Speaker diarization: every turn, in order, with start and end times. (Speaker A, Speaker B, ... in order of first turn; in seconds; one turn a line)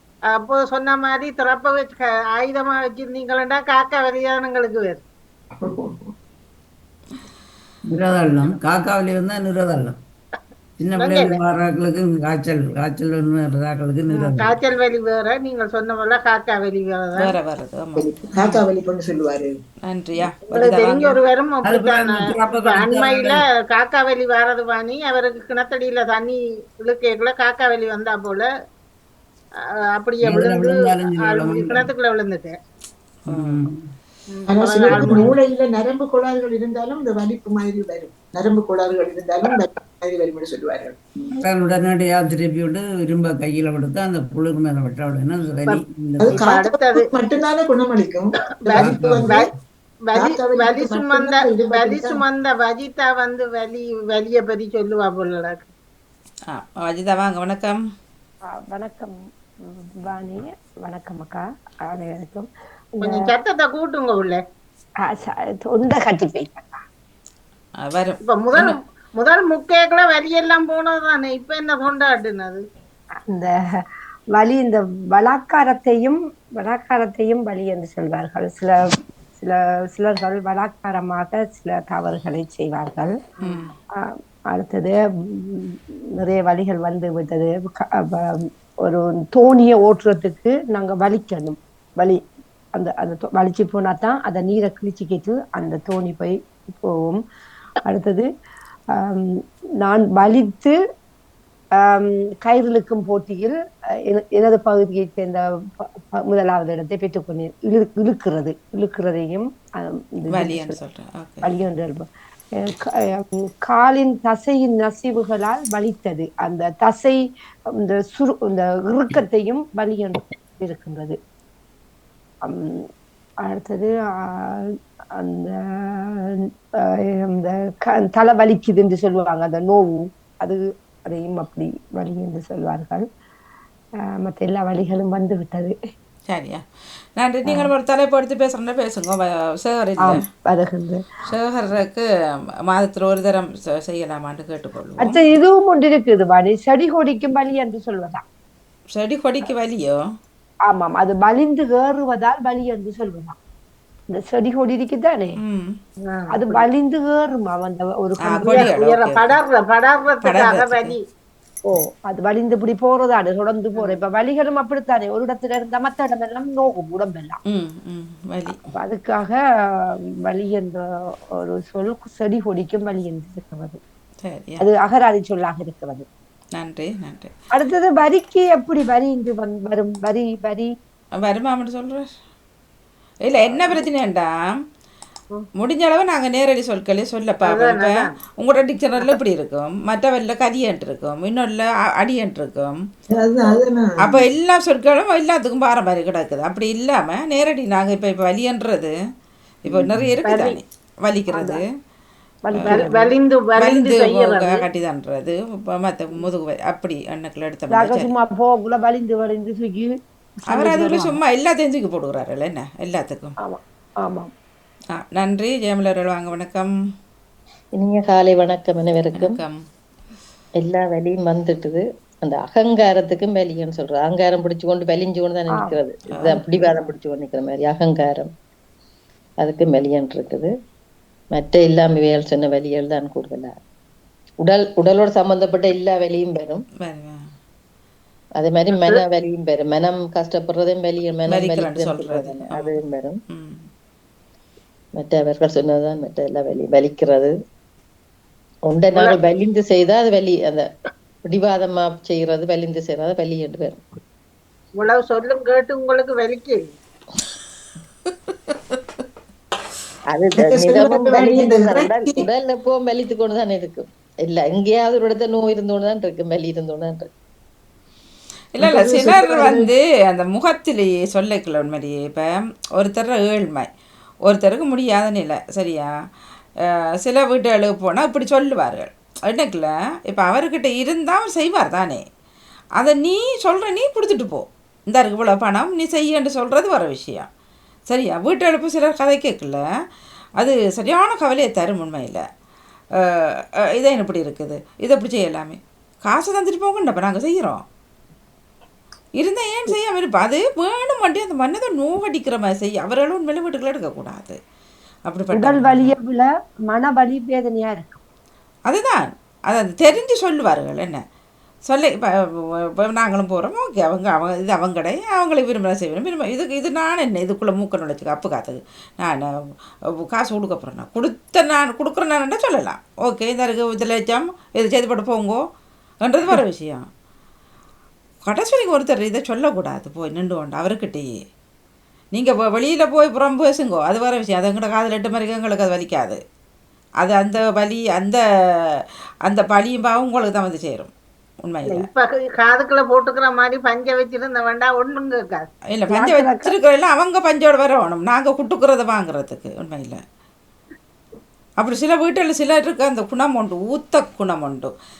Speaker A: 0.3-5.0
Speaker B: 5.6-6.1
Speaker C: 7.9-10.0
Speaker C: 10.8-14.6
Speaker A: 11.0-11.4
Speaker A: 14.1-17.3
Speaker D: 17.1-18.6
Speaker B: 17.9-19.5
Speaker D: 19.8-21.1
Speaker A: 20.5-28.5
Speaker C: 20.5-21.1
Speaker C: 21.6-23.4
Speaker A: 29.9-32.5
Speaker C: 30.2-31.9
Speaker D: 33.3-33.6
Speaker C: 33.3-33.9
Speaker A: 34.3-35.4
Speaker B: 34.5-41.2
Speaker C: 34.9-35.3
Speaker C: 41.3-46.4
Speaker A: 45.7-47.1
Speaker B: 46.2-49.4
Speaker A: 48.6-49.5
Speaker C: 48.8-49.5
Speaker A: 50.1-55.7
Speaker B: 50.1-52.2
Speaker D: 56.5-57.8
Speaker E: 58.5-59.1
Speaker E: 59.6-62.5
Speaker A: 63.0-64.4
Speaker E: 63.0-63.3
Speaker E: 65.0-66.8
Speaker D: 67.8-68.8
Speaker A: 68.2-72.6
Speaker E: 74.3-83.1
Speaker D: 83.4-83.7
Speaker E: 84.0-92.2
Speaker E: 92.8-97.2
Speaker E: 97.8-98.3
Speaker E: 99.0-100.8
Speaker E: 101.8-103.5
Speaker E: 104.1-110.8
Speaker D: 110.3-111.5
Speaker E: 111.4-112.1
Speaker E: 112.6-117.2
Speaker E: 117.8-121.2
Speaker E: 122.4-122.9
Speaker E: 123.4-126.5
Speaker E: 127.1-133.0
Speaker E: 134.2-135.7
Speaker D: 136.3-136.6
Speaker D: 137.2-140.2
Speaker E: 137.4-137.7
Speaker E: 140.0-141.0
Speaker D: 141.2-142.1
Speaker D: 142.7-145.2
Speaker E: 145.0-148.2
Speaker D: 148.9-150.0
Speaker E: 150.7-153.3
Speaker E: 154.1-155.4
Speaker D: 155.4-155.8
Speaker E: 156.3-158.8
Speaker A: 156.3-156.7
Speaker D: 158.2-159.3
Speaker A: 158.4-161.0
Speaker D: 160.2-160.9
Speaker E: 161.6-167.4
Speaker D: 167.5-168.6
Speaker E: 168.7-169.4
Speaker E: 170.3-170.8
Speaker E: 171.4-173.8
Speaker D: 174.2-174.6
Speaker E: 174.6-176.1
Speaker D: 176.6-177.3
Speaker E: 177.5-180.7
Speaker D: 181.2-182.1
Speaker D: 183.2-184.6
Speaker D: 185.6-192.8
Speaker A: 187.4-188.1
Speaker B: 193.2-194.2
Speaker D: 194.0-198.9
Speaker D: 199.7-201.6
Speaker A: 200.2-200.6
Speaker E: 201.3-201.6
Speaker E: 202.4-203.2
Speaker D: 202.6-202.8
Speaker A: 202.6-204.6
Speaker D: 203.6-208.1
Speaker E: 207.7-211.2
Speaker D: 210.5-213.3
Speaker E: 213.4-214.3
Speaker D: 214.9-216.7
Speaker F: 217.8-219.4
Speaker D: 219.1-219.6
Speaker F: 220.6-228.3
Speaker D: 226.1-226.4
Speaker E: 226.6-226.9
Speaker F: 229.4-230.5
Speaker F: 231.3-233.5
Speaker F: 234.4-236.6
Speaker D: 236.8-237.2
Speaker F: 238.4-243.2
Speaker D: 241.3-242.8
Speaker D: 243.3-243.7
Speaker F: 245.0-247.3
Speaker F: 248.7-250.7
Speaker F: 251.3-253.8
Speaker A: 254.8-256.6
Speaker F: 260.1-267.1
Speaker B: 260.4-262.2
Speaker D: 268.5-273.7
Speaker B: 268.6-269.7
Speaker D: 274.2-275.9
Speaker D: 277.0-282.0
Speaker D: 282.8-287.3
Speaker D: 287.9-289.6
Speaker D: 290.4-292.2
Speaker D: 293.8-297.6
Speaker D: 299.2-304.4
Speaker D: 305.1-305.9
Speaker E: 305.3-308.0
Speaker D: 308.7-311.0
Speaker D: 311.7-319.3
Speaker D: 320.1-325.4
Speaker D: 326.0-326.9
Speaker D: 328.2-331.1
Speaker D: 332.1-336.2
Speaker D: 337.0-338.2
Speaker D: 339.2-340.9
Speaker D: 341.4-341.9
Speaker A: 341.7-345.5
Speaker D: 345.7-350.0
Speaker E: 345.9-346.6
Speaker D: 351.6-354.7